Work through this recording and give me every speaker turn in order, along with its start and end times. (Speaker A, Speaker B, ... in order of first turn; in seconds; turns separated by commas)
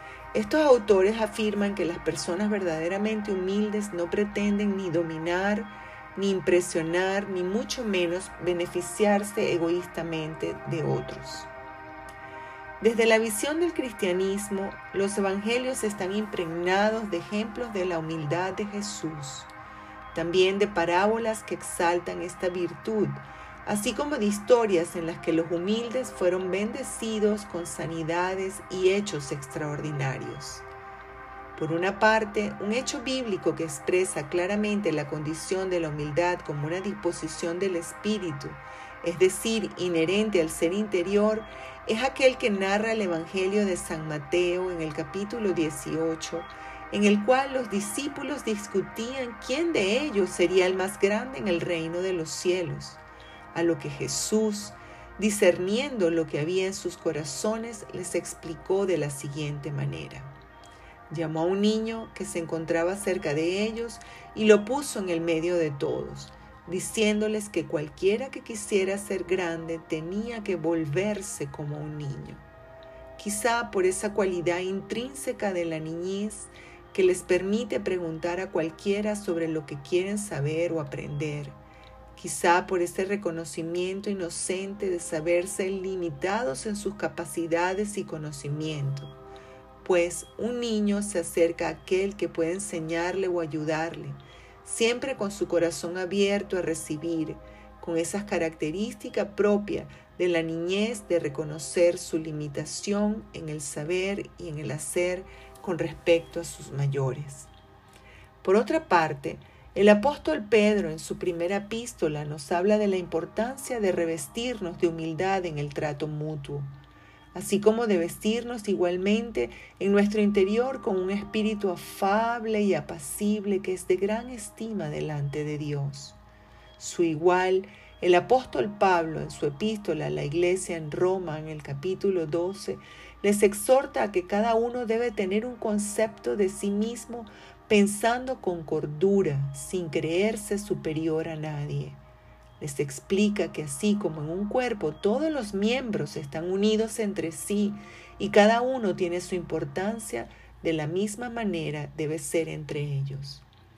Speaker A: 0.3-11.5, Speaker A: 12.8-19.5, Speaker A: 20.1-30.6, Speaker A: 31.6-53.0, Speaker A: 53.5-60.3, Speaker A: 61.1-72.4, Speaker A: 73.2-81.6, Speaker A: 82.2-89.1, Speaker A: 89.8-107.5, Speaker A: 108.4-116.7, Speaker A: 117.3-126.2, Speaker A: 126.8-142.0, Speaker A: 142.6-153.4